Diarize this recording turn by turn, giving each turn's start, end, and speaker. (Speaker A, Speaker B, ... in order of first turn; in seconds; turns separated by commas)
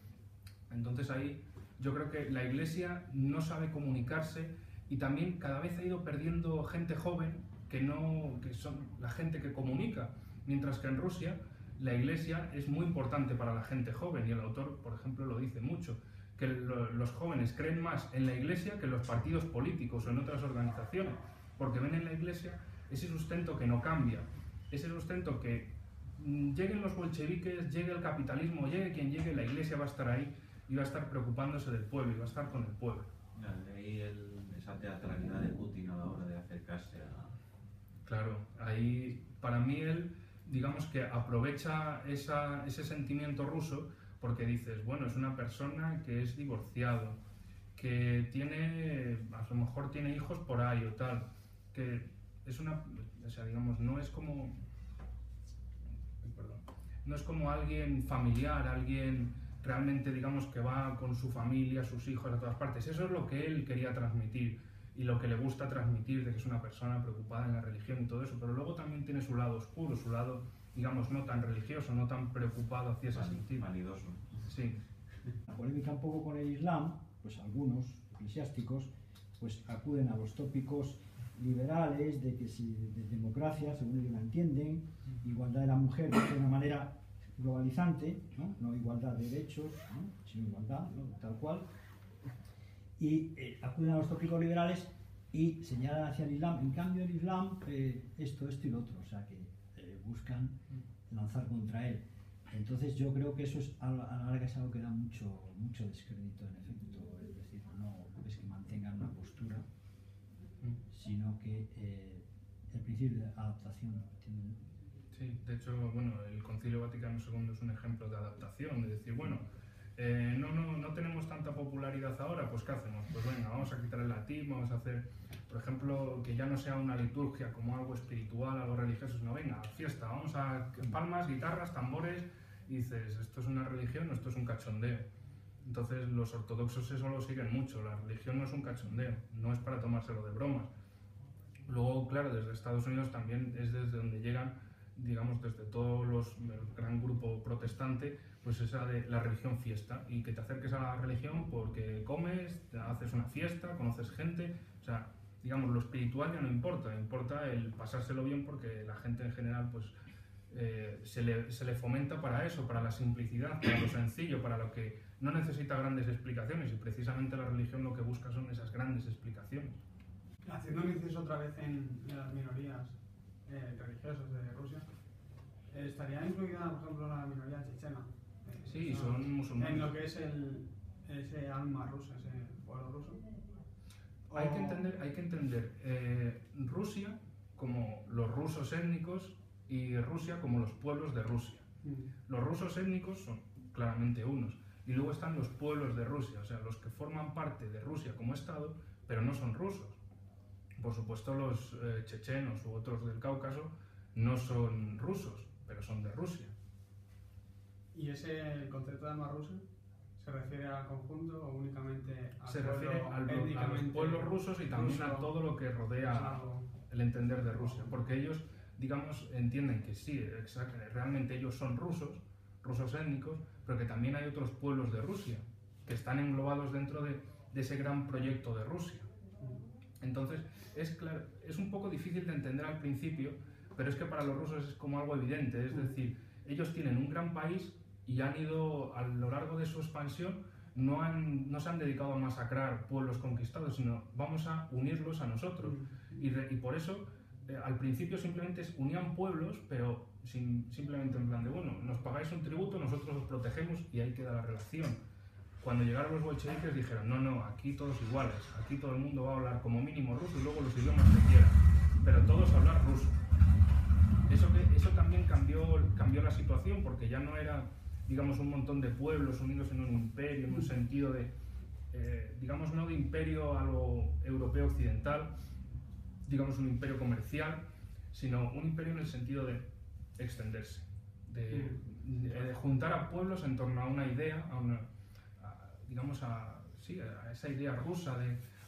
Speaker A: 0.7-33.1, Speaker B: 33.3-37.3, Speaker A: 38.0-47.2, Speaker A: 47.7-54.6, Speaker A: 56.2-73.7, Speaker B: 73.1-74.5, Speaker A: 74.4-74.8, Speaker C: 75.5-91.7, Speaker C: 93.0-109.6, Speaker C: 110.9-114.6, Speaker A: 115.1-135.1, Speaker A: 135.6-140.7, Speaker A: 141.7-159.9, Speaker A: 160.5-169.8, Speaker D: 170.4-174.9, Speaker D: 175.7-183.2, Speaker A: 178.7-179.9, Speaker D: 184.3-184.8, Speaker A: 184.3-191.7, Speaker D: 191.8-192.1, Speaker A: 192.2-200.0, Speaker A: 200.8-206.5, Speaker D: 207.9-209.7, Speaker D: 210.2-215.4, Speaker A: 212.4-229.1, Speaker D: 216.0-216.7, Speaker D: 217.5-217.9, Speaker A: 230.0-255.0, Speaker D: 245.6-246.2, Speaker A: 255.6-263.2, Speaker A: 264.3-271.3, Speaker A: 271.9-275.3, Speaker A: 276.2-279.6, Speaker A: 280.2-284.9, Speaker D: 281.5-281.8, Speaker A: 285.4-288.4